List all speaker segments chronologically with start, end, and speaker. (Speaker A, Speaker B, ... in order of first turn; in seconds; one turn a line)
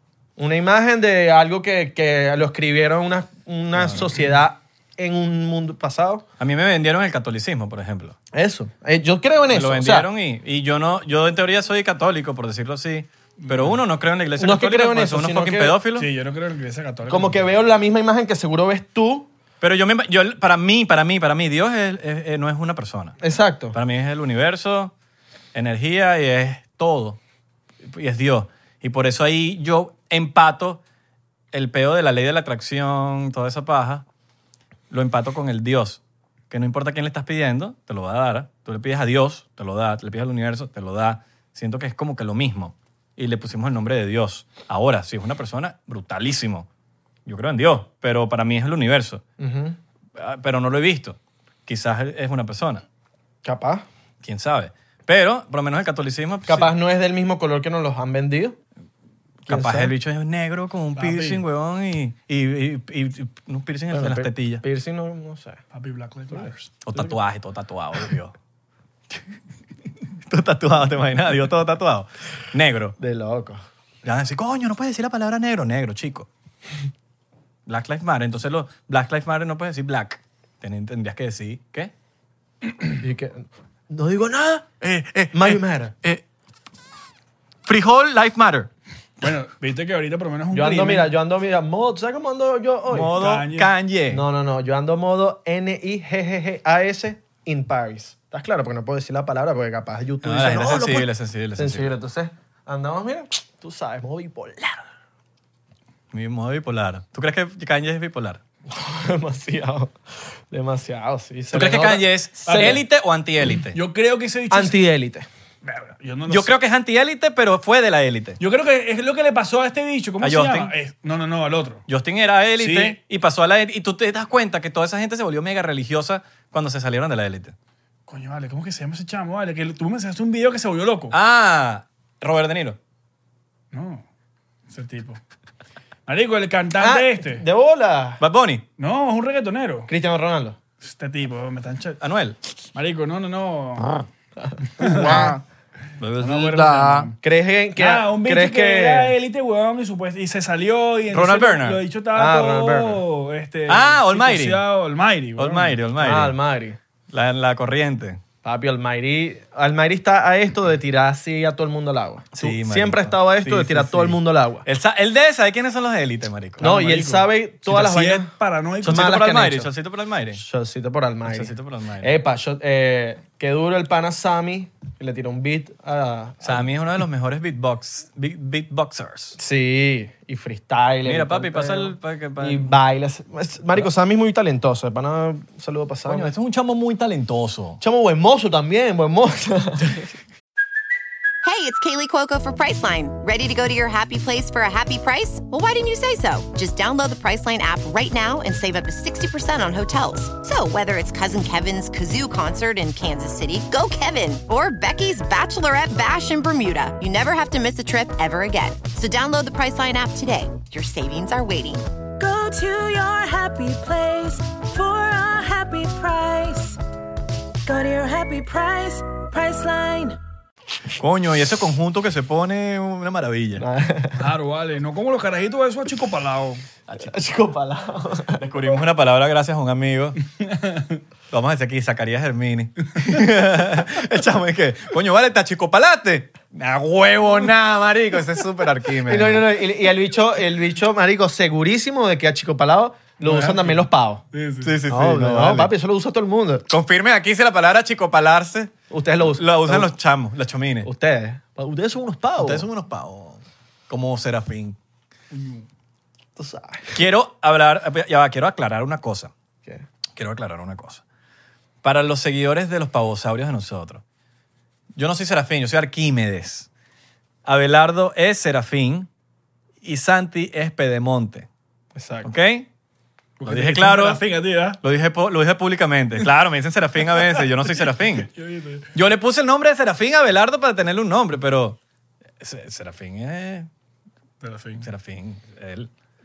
Speaker A: 0.4-6.2
Speaker B: 3.8-4.1
Speaker B: 6.4-8.2
Speaker A: 8.3-10.1
Speaker B: 9.5-16.1
Speaker C: 13.4-13.8
Speaker A: 14.4-15.8
Speaker C: 15.9-17.5
Speaker A: 17.1-19.3
Speaker B: 19.6-23.2
Speaker A: 23.2-23.8
Speaker B: 23.7-24.9
Speaker B: 25.5-27.2
Speaker B: 27.8-30.8
Speaker B: 31.5-34.0
Speaker B: 34.9-46.7
Speaker B: 47.2-49.2
Speaker A: 49.4-49.8
Speaker B: 50.1-52.8
Speaker A: 53.4-53.9
Speaker B: 54.2-56.7
Speaker A: 56.5-58.6
Speaker B: 59.5-64.6
Speaker A: 59.5-59.9
Speaker C: 61.0-61.4
Speaker A: 63.9-65.6
Speaker C: 65.7-66.8
Speaker B: 66.8-68.3
Speaker B: 70.3-73.0
Speaker A: 73.0-73.6
Speaker B: 74.0-76.3
Speaker B: 77.7-81.9
Speaker A: 83.0-84.7
Speaker B: 84.8-86.2
Speaker A: 85.3-85.9
Speaker B: 87.7-88.7
Speaker C: 89.2-91.1
Speaker A: 90.5-93.2
Speaker B: 92.9-94.2
Speaker C: 93.0-93.7
Speaker A: 94.1-104.9
Speaker B: 100.2-101.9
Speaker B: 106.1-108.4
Speaker A: 108.7-109.9
Speaker A: 110.5-112.8
Speaker B: 111.5-113.8
Speaker C: 112.5-112.8
Speaker C: 113.7-114.8
Speaker A: 114.5-115.3
Speaker C: 115.6-116.5
Speaker B: 116.3-118.4
Speaker C: 118.4-121.8
Speaker B: 120.2-120.7
Speaker B: 121.9-127.5
Speaker C: 122.6-123.0
Speaker C: 128.1-131.1
Speaker B: 131.1-132.8
Speaker C: 133.7-134.0
Speaker C: 134.7-135.2
Speaker C: 136.1-137.4
Speaker A: 136.8-138.2
Speaker B: 138.2-138.6
Speaker C: 138.8-139.9
Speaker A: 139.9-140.6
Speaker C: 140.8-142.0
Speaker B: 142.0-142.4
Speaker C: 142.7-144.0
Speaker A: 144.4-145.4
Speaker C: 144.8-145.3
Speaker B: 144.8-145.4
Speaker B: 146.0-147.1
Speaker C: 146.2-147.2
Speaker A: 147.2-149.1
Speaker C: 147.8-155.8
Speaker B: 151.1-151.8
Speaker A: 152.1-153.0
Speaker B: 153.7-154.6
Speaker B: 155.4-156.3
Speaker A: 156.0-156.8
Speaker B: 157.1-158.2
Speaker A: 158.4-164.7
Speaker B: 162.3-166.7
Speaker C: 166.6-169.2
Speaker A: 166.6-168.3
Speaker A: 168.8-169.7
Speaker B: 168.8-170.4
Speaker A: 170.3-176.7
Speaker B: 171.3-172.2
Speaker B: 176.4-179.4
Speaker A: 179.4-186.3
Speaker B: 181.0-182.7
Speaker B: 186.1-187.8
Speaker A: 187.8-190.1
Speaker D: 191.4-211.9
Speaker E: 212.2-216.8
Speaker E: 217.6-220.2
Speaker B: 221.0-223.6
Speaker A: 223.6-224.2
Speaker C: 224.2-226.6
Speaker A: 227.0-228.4
Speaker B: 228.4-230.2
Speaker C: 230.4-230.9
Speaker B: 231.3-239.4
Speaker A: 239.0-244.2
Speaker C: 243.2-244.8
Speaker B: 244.6-245.7
Speaker A: 244.9-246.7
Speaker B: 246.7-248.7
Speaker A: 248.9-249.9
Speaker B: 249.3-250.9
Speaker A: 250.8-252.7
Speaker B: 252.4-254.8
Speaker C: 255.3-255.6
Speaker A: 256.4-257.0
Speaker B: 256.9-259.3
Speaker B: 260.1-261.0
Speaker B: 261.8-264.0
Speaker B: 264.9-266.7
Speaker B: 267.4-269.1
Speaker B: 269.8-271.5
Speaker A: 271.9-272.3
Speaker B: 272.2-272.7
Speaker C: 273.4-274.8
Speaker B: 273.4-274.2
Speaker B: 274.8-278.3
Speaker C: 277.1-278.9
Speaker B: 278.9-281.8
Speaker B: 282.4-283.7
Speaker C: 284.4-284.9
Speaker B: 284.8-285.9